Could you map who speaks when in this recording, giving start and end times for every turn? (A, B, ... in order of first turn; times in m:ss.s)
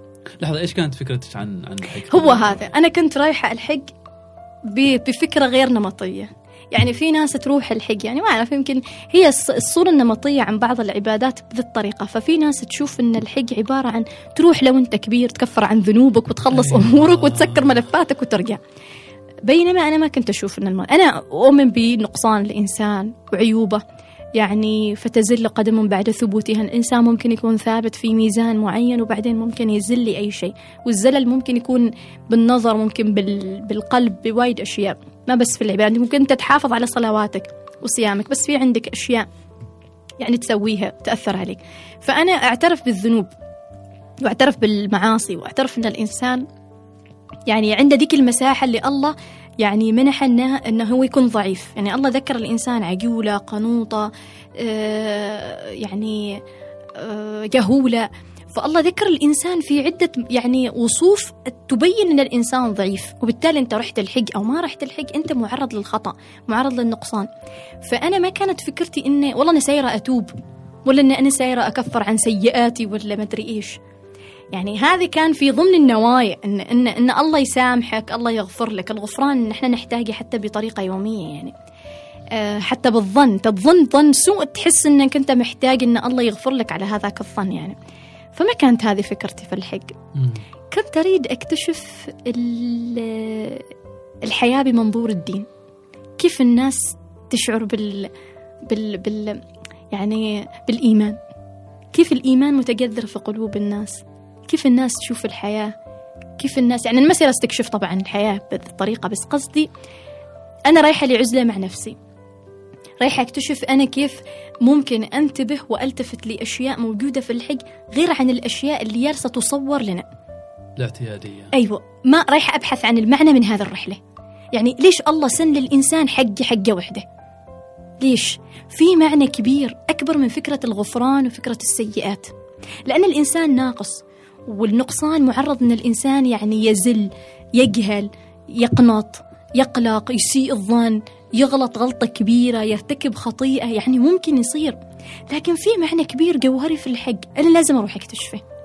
0:00.4-0:02.6 A
0:02.1-0:03.9 B
0:04.7-0:18.6 B
0:16.5-0:17.8 A
0:19.5-0:23.8 B
0:24.4-0:39.3 B
0:40.2-0:43.3 B
0:44.2-0:46.4 B
0:47.5-0:56.4 B
0:57.0-1:07.3 B
1:07.8-1:10.3 B
1:10.9-1:13.8 B
1:14.5-1:21.5 B
1:22.3-1:27.8 B
1:28.4-1:30.0 B
1:30.2-1:30.4 A
1:30.7-1:33.7 B
1:34.2-1:35.5 B
1:36.2-1:38.1 B
1:38.7-1:41.2 B
1:41.9-1:45.7 B
1:46.4-1:49.7 B
1:50.7-1:52.0 B
1:53.0-2:00.1 B
2:00.8-2:01.5 A
2:01.5-2:04.0 B
2:04.5-2:07.0 B
2:08.0-2:12.3 B
2:12.9-2:28.4 B